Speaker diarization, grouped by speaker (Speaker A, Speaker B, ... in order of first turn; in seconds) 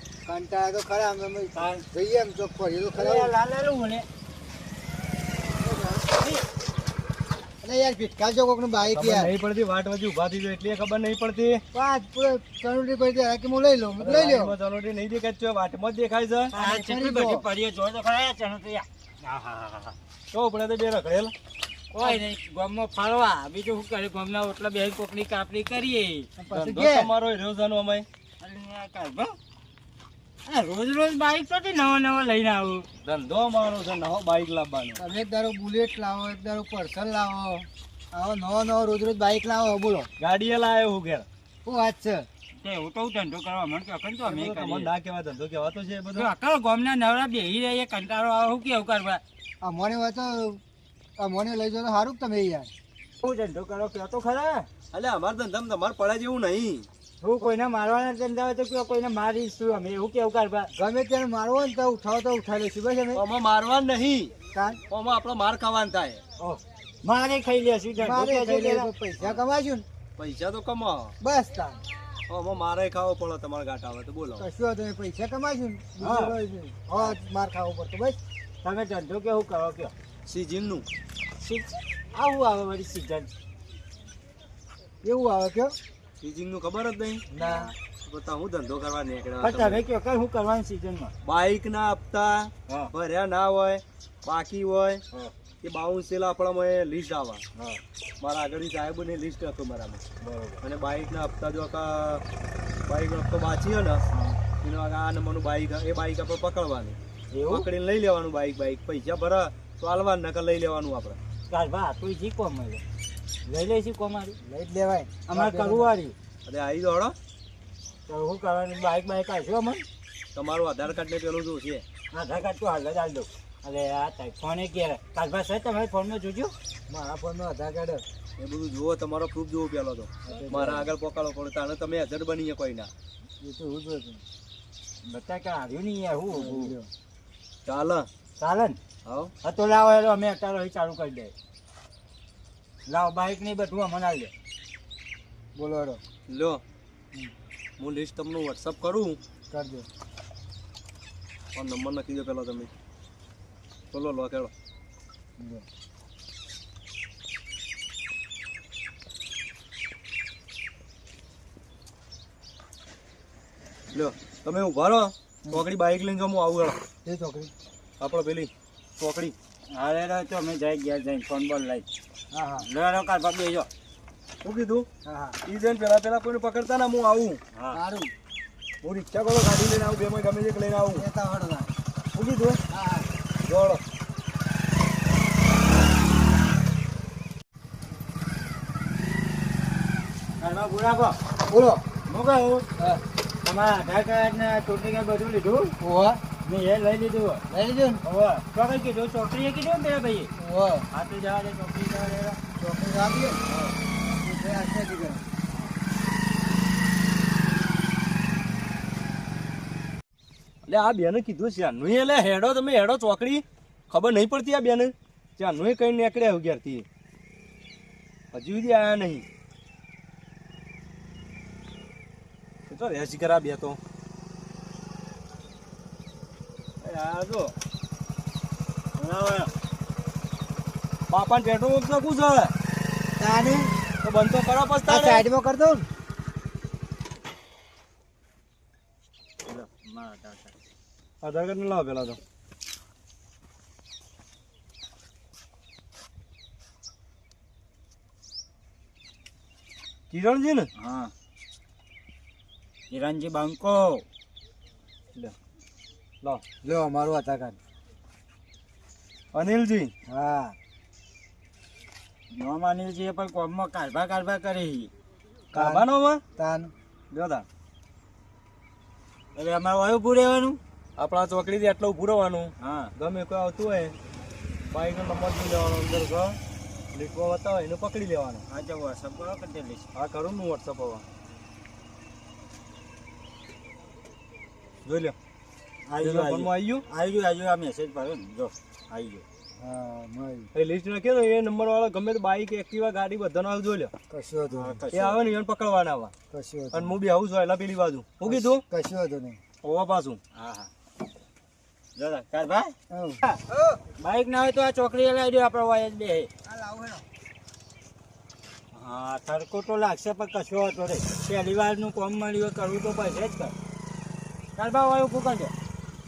Speaker A: 0.2-3.3, 5.6-6.1, 7.6-9.3, 11.7-14.6, 16.6-17.5, 26.4-27.1, 35.0-40.1, 41.6-42.3, 49.6-50.6, 51.2-52.7, 60.8-63.2, 64.5-64.8, 68.0-69.8, 71.2-71.8, 74.4-78.2, 85.0-85.8, 87.3-87.7, 114.4-115.9, 126.9-128.0, 130.3-130.9, 133.4-134.2, 136.3-136.9, 145.6-146.0, 149.5-149.9, 155.4-155.7, 167.1-167.5, 172.3-172.7, 175.1-175.4, 177.7-178.1, 180.9-181.7, 182.7-183.1, 191.5-191.8, 195.8-196.2, 197.5-198.0, 200.4-200.9, 202.6-203.4, 204.1-205.2, 233.2-233.7, 234.8-235.9, 256.6-257.6, 260.1-260.6, 265.5-265.9, 266.4-266.7, 289.6-290.5, 294.1-294.8, 296.3-297.0, 298.3-299.4, 302.9-303.8, 306.4-307.1
Speaker B: 1.6-1.8, 2.9-4.1, 16.5-20.0, 21.9-26.3, 28.4-29.4, 30.5-32.9, 42.6-44.9, 46.1-49.2, 53.2-54.7, 57.2-60.7, 66.4-68.9, 76.0-76.3, 78.6-79.9, 81.4-83.3, 89.4-91.1, 97.6-97.8, 100.2-100.6, 104.1-104.4, 107.3-107.7, 111.5-112.8, 113.5-114.4, 115.3-116.2, 118.1-119.8, 122.1-126.5, 135.1-136.5, 138.4-138.8, 139.4-141.3, 142.9-144.3, 169.7-171.9, 172.6-173.7, 190.4-191.2, 192.1-192.7, 193.4-195.7, 196.4-197.4, 198.0-200.3, 200.9-202.4, 229.0-229.5, 239.5-240.5, 250.8-251.1, 252.9-254.1, 262.3-264.9, 269.4-270.6, 272.6-272.9, 278.5-279.9, 285.9-289.2, 294.5-295.2, 300.4-300.7, 302.0-302.8, 304.0-306.3, 308.7-313.6, 314.6-315.5
Speaker C: 8.9-11.6, 14.0-16.6, 20.3-21.3, 26.5-28.1, 33.0-35.0, 40.2-41.3, 44.2-46.3, 54.9-56.9, 63.1-64.3, 64.9-66.2, 70.2-71.1, 72.3-74.5, 80.3-80.9, 86.2-87.3, 87.9-89.8, 91.2-95.0, 95.6-97.4, 98.2-100.0, 100.6-102.2, 102.9-104.0, 104.6-107.0, 107.5-111.2, 116.5-117.2, 120.3-121.8, 128.4-132.9, 136.4-136.7, 137.7-138.1, 139.1-139.3, 146.3-146.6, 147.8-149.2, 151.5-152.7, 153.9-154.5, 163.9-166.8, 168.0-169.3, 174.4-174.9, 175.5-177.4, 178.8-181.1, 182.1-182.6, 183.4-183.8, 203.5-203.7, 210.7-216.9, 218.3-219.2, 222.7-223.8, 226.8-227.5, 231.1-232.5, 234.0-235.2, 241.2-242.2, 250.1-250.7, 259.3-259.9, 265.5-266.2, 267.1-267.5, 271.0-273.9, 274.7-276.4, 276.9-278.4, 279.9-281.1, 284.9-285.2, 286.0-286.8, 290.5-293.9, 294.9-296.1, 296.7-298.6, 299.6-300.2